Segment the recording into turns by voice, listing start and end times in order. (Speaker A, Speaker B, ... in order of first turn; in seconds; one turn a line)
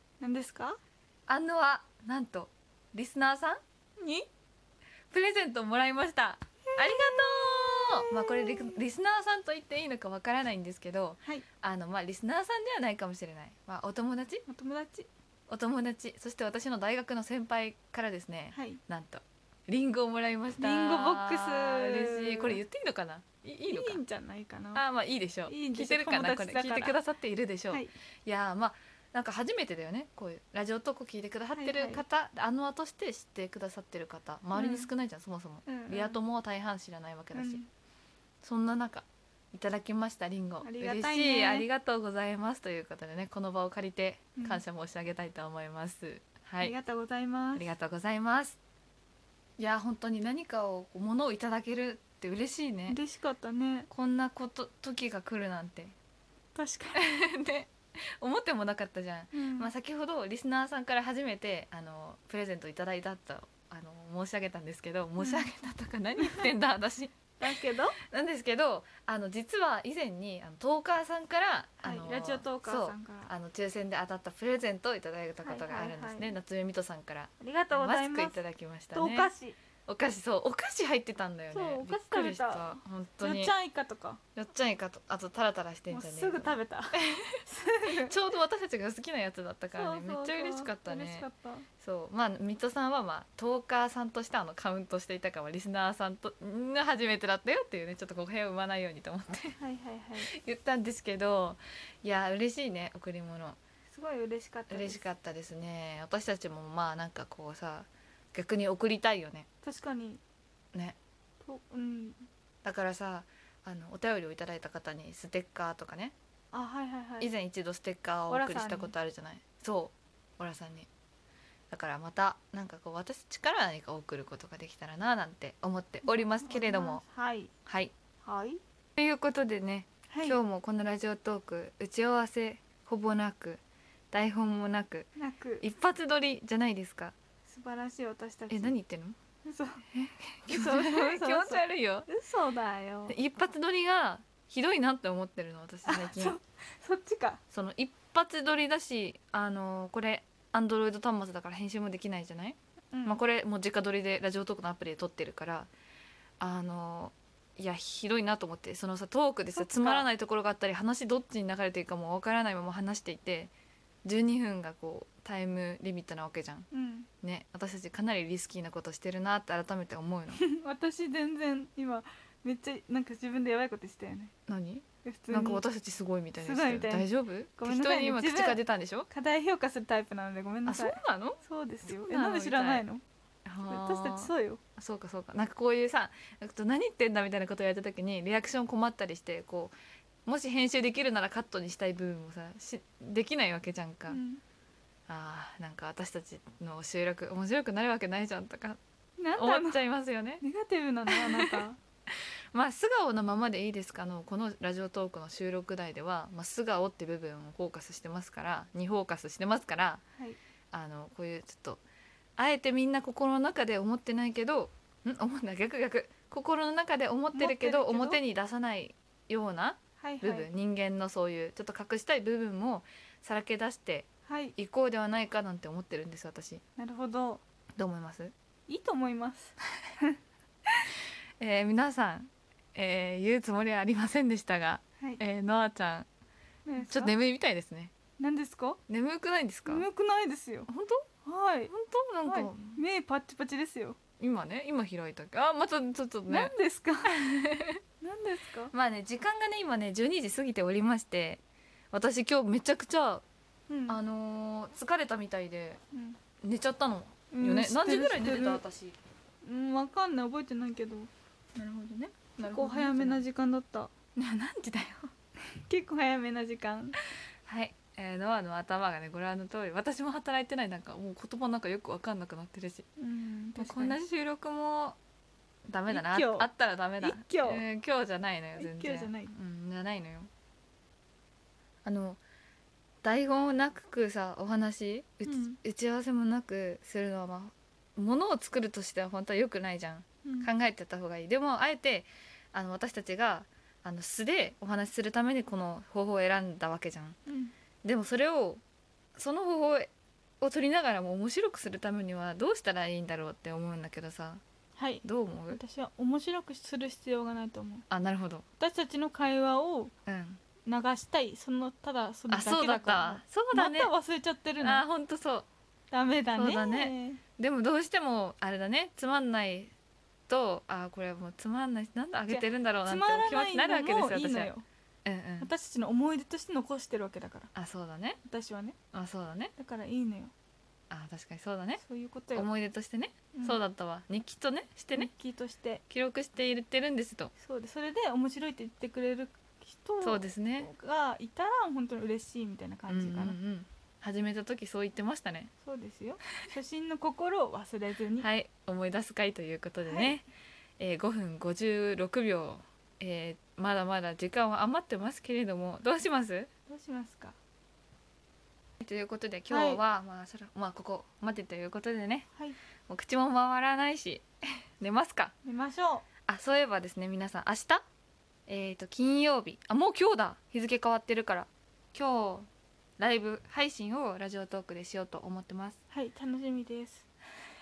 Speaker A: 0.2-0.8
Speaker B: 1.3-3.6
Speaker A: 4.0-4.3
Speaker B: 5.1-14.4
Speaker A: 6.7-8.8
Speaker A: 14.5-15.1
Speaker B: 15.5-24.0
Speaker A: 18.5-18.8
Speaker A: 20.6-22.6
Speaker A: 23.7-24.8
Speaker B: 24.7-37.6
Speaker A: 25.5-27.0
Speaker A: 31.6-32.0
Speaker A: 34.5-34.9
Speaker A: 35.6-36.2
Speaker A: 37.3-37.7
Speaker B: 38.4-46.7
Speaker A: 40.6-41.7
Speaker A: 44.4-44.6
Speaker A: 46.6-47.7
Speaker B: 47.5-48.6
Speaker B: 49.6-53.0
Speaker A: 52.9-53.9
Speaker B: 53.9-55.9
Speaker A: 56.5-57.0
Speaker B: 56.9-67.5
Speaker A: 59.3-59.7
Speaker A: 65.2-65.5
Speaker A: 66.2-66.5
Speaker A: 67.4-68.0
Speaker B: 68.0-79.3
Speaker A: 71.8-73.3
Speaker A: 75.4-76.4
Speaker A: 77.4-78.4
Speaker A: 78.9-79.6
Speaker B: 79.9-83.5
Speaker A: 81.5-84.2
Speaker B: 84.3-87.4
Speaker A: 85.9-88.2
Speaker B: 88.0-91.2
Speaker A: 89.7-91.7
Speaker B: 91.8-99.6
Speaker A: 99.6-100.3
Speaker B: 100.3-103.6
Speaker A: 103.9-105.0
Speaker B: 104.7-109.5
Speaker A: 109.6-110.2
Speaker A: 111.4-112.2
Speaker B: 112.6-116.1
Speaker A: 116.5-117.3
Speaker B: 117.2-120.9
Speaker A: 118.3-118.9
Speaker B: 121.7-127.0
Speaker A: 126.1-127.5
Speaker B: 127.7-127.9
Speaker A: 128.2-128.6
Speaker B: 129.0-135.1
Speaker A: 130.1-130.4
Speaker A: 135.2-135.6
Speaker B: 135.6-137.1
Speaker A: 137.4-138.8
Speaker B: 138.5-139.2
Speaker A: 139.4-139.8
Speaker B: 139.9-142.1
Speaker A: 140.5-143.2
Speaker B: 143.1-146.4
Speaker A: 145.8-147.4
Speaker B: 147.5-155.7
Speaker A: 152.9-153.2
Speaker B: 156.4-163.5
Speaker A: 159.6-160.1
Speaker B: 164.0-166.7
Speaker A: 166.7-167.1
Speaker B: 167.2-170.4
Speaker A: 170.3-174.3
Speaker B: 174.5-179.1
Speaker A: 175.0-175.6
Speaker A: 176.4-178.6
Speaker A: 179.1-183.0
Speaker B: 180.7-182.8
Speaker B: 183.4-189.7
Speaker A: 183.6-184.6
Speaker B: 190.2-194.2
Speaker A: 194.1-194.4
Speaker B: 195.1-198.8
Speaker A: 199.2-199.8
Speaker B: 199.3-200.4
Speaker A: 200.4-201.8
Speaker B: 201.1-210.0
Speaker B: 210.7-211.8
Speaker B: 212.4-226.6
Speaker A: 217.3-218.2
Speaker A: 220.0-220.5
Speaker A: 224.3-224.5
Speaker A: 226.8-227.4
Speaker B: 227.8-228.3
Speaker A: 228.7-230.2
Speaker B: 231.4-236.1
Speaker A: 236.7-237.1
Speaker B: 236.8-237.9
Speaker A: 238.2-238.8
Speaker B: 238.9-239.9
Speaker A: 239.7-240.7
Speaker B: 240.7-241.0
Speaker A: 241.2-241.7
Speaker B: 241.7-242.8
Speaker A: 242.2-244.0
Speaker B: 244.2-246.5
Speaker A: 246.3-247.2
Speaker B: 247.1-247.8
Speaker A: 248.0-248.7
Speaker B: 248.7-251.4
Speaker B: 251.9-253.2
Speaker A: 253.7-254.0
Speaker B: 253.9-255.8
Speaker A: 255.9-256.2
Speaker B: 256.4-259.0
Speaker A: 257.3-258.6
Speaker A: 259.4-264.1
Speaker B: 262.4-263.2
Speaker B: 264.1-265.1
Speaker A: 265.5-267.0
Speaker B: 267.4-272.9
Speaker A: 273.0-274.0
Speaker B: 273.6-275.0
Speaker B: 275.7-280.3
Speaker A: 275.9-277.6
Speaker A: 278.6-279.3
Speaker B: 281.8-282.2
Speaker B: 283.0-297.2
Speaker A: 285.2-285.6
Speaker A: 290.2-290.5
Speaker A: 297.3-297.5
Speaker B: 297.8-298.6
Speaker B: 299.1-304.4
Speaker A: 304.8-307.9
Speaker B: 305.0-305.6
Speaker B: 307.9-308.4
Speaker A: 308.6-309.9
Speaker B: 310.1-310.4
Speaker A: 310.6-314.8
Speaker B: 312.3-313.9
Speaker B: 314.6-315.5
Speaker A: 315.9-317.2
Speaker B: 316.3-319.7
Speaker B: 320.3-324.5
Speaker A: 322.3-324.6
Speaker B: 325.0-325.5
Speaker A: 325.4-327.5
Speaker B: 327.5-328.2
Speaker A: 328.2-328.8
Speaker B: 328.9-329.5
Speaker A: 329.6-330.3
Speaker B: 330.9-331.8
Speaker A: 331.8-332.5
Speaker B: 332.3-335.1
Speaker A: 333.3-333.6
Speaker A: 334.9-335.8
Speaker B: 335.9-337.3
Speaker A: 337.4-343.4
Speaker B: 340.0-340.7
Speaker B: 342.9-345.5
Speaker A: 345.6-348.3
Speaker B: 348.2-350.3
Speaker A: 349.9-350.1
Speaker B: 350.8-356.5
Speaker A: 356.7-357.4
Speaker B: 358.8-362.3
Speaker A: 359.5-359.8
Speaker B: 362.9-364.2
Speaker B: 364.8-365.3
Speaker A: 365.4-366.1
Speaker B: 366.3-367.8
Speaker B: 368.5-372.5
Speaker B: 373.0-375.8
Speaker A: 375.9-377.0